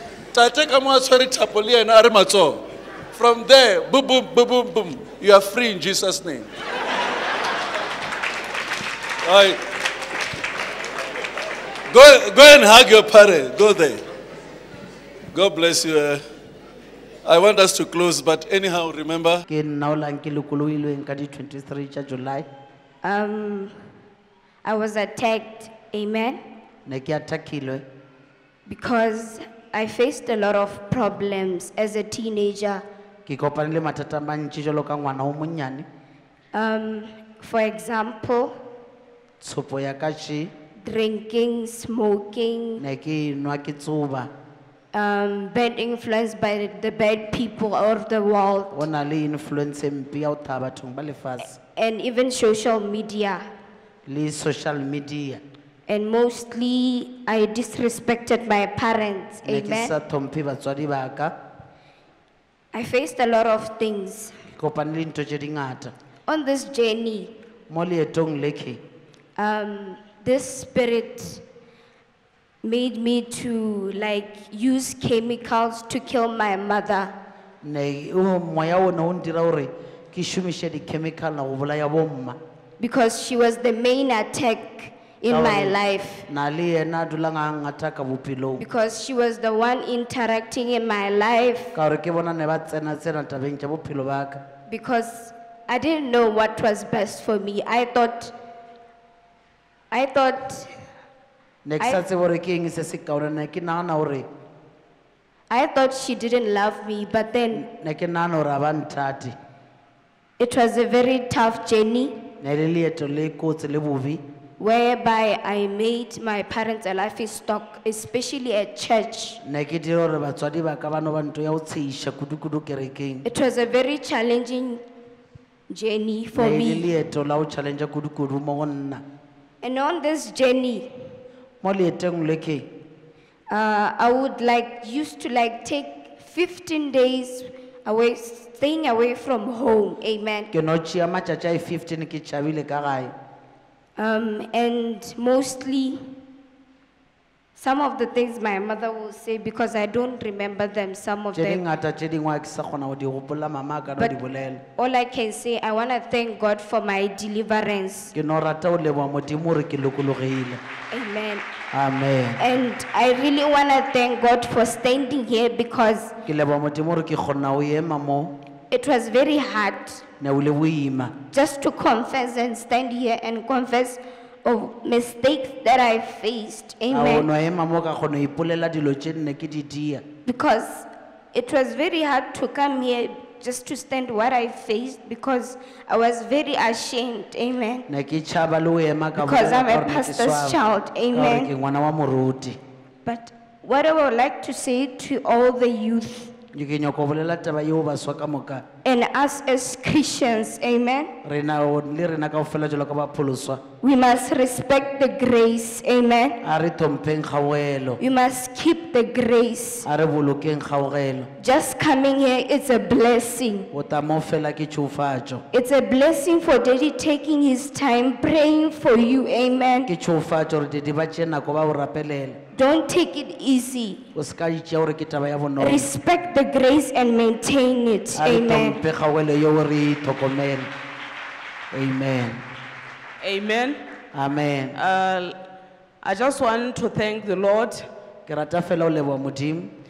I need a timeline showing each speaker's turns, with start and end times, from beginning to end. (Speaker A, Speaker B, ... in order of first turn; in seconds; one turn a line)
Speaker A: 0.3-6.5
Speaker A: 9.2-9.6
Speaker A: 11.9-14.0
Speaker A: 15.3-16.2
Speaker A: 17.2-19.5
Speaker B: 19.5-22.5
Speaker C: 23.0-23.8
Speaker C: 24.6-26.4
Speaker B: 26.9-27.9
Speaker C: 28.7-32.9
Speaker B: 33.2-35.9
Speaker C: 36.5-38.5
Speaker B: 39.4-40.5
Speaker C: 40.8-42.8
Speaker B: 42.8-44.3
Speaker C: 44.9-48.9
Speaker B: 48.7-51.5
Speaker C: 51.6-53.5
Speaker B: 54.1-55.4
Speaker C: 55.9-59.9
Speaker B: 59.5-61.3
Speaker C: 62.7-64.3
Speaker B: 64.5-65.9
Speaker C: 66.3-67.3
Speaker B: 67.7-68.8
Speaker C: 69.4-71.4
Speaker C: 72.6-77.2
Speaker B: 77.6-82.4
Speaker C: 82.8-86.3
Speaker B: 85.3-88.6
Speaker C: 88.6-91.7
Speaker B: 91.8-94.4
Speaker C: 94.7-98.3
Speaker C: 99.9-100.7
Speaker B: 101.7-104.3
Speaker C: 105.5-107.6
Speaker B: 107.5-109.4
Speaker C: 110.4-112.2
Speaker B: 112.4-114.2
Speaker C: 114.6-119.4
Speaker B: 119.4-123.2
Speaker C: 123.2-124.8
Speaker C: 125.7-126.9
Speaker B: 126.3-129.0
Speaker C: 129.6-130.9
Speaker B: 131.6-132.7
Speaker C: 133.5-140.5
Speaker B: 140.5-143.1
Speaker C: 144.0-146.1
Speaker C: 147.6-151.6
Speaker B: 151.3-154.6
Speaker C: 154.8-158.1
Speaker B: 158.1-160.6
Speaker C: 160.9-161.4
Speaker B: 161.7-162.4
Speaker C: 162.4-166.1
Speaker B: 166.2-168.4
Speaker C: 168.7-170.0
Speaker B: 170.2-171.2
Speaker C: 171.3-177.3
Speaker B: 176.9-180.0
Speaker C: 180.3-187.9
Speaker B: 187.9-190.6
Speaker C: 189.2-191.5
Speaker B: 191.1-192.6
Speaker C: 193.1-196.3
Speaker B: 196.5-198.7
Speaker C: 198.8-201.1
Speaker B: 201.2-203.6
Speaker C: 203.8-206.4
Speaker B: 206.4-208.0
Speaker C: 208.0-209.9
Speaker B: 209.8-211.3
Speaker C: 211.4-213.7
Speaker B: 213.7-215.4
Speaker C: 215.5-219.9
Speaker B: 219.9-222.4
Speaker C: 222.5-224.0
Speaker B: 224.1-225.9
Speaker C: 225.6-228.8
Speaker B: 228.2-230.7
Speaker B: 231.7-232.4
Speaker D: 233.2-233.8
Speaker B: 234.1-234.8
Speaker D: 234.8-235.4
Speaker D: 236.0-237.9
Speaker B: 238.3-239.7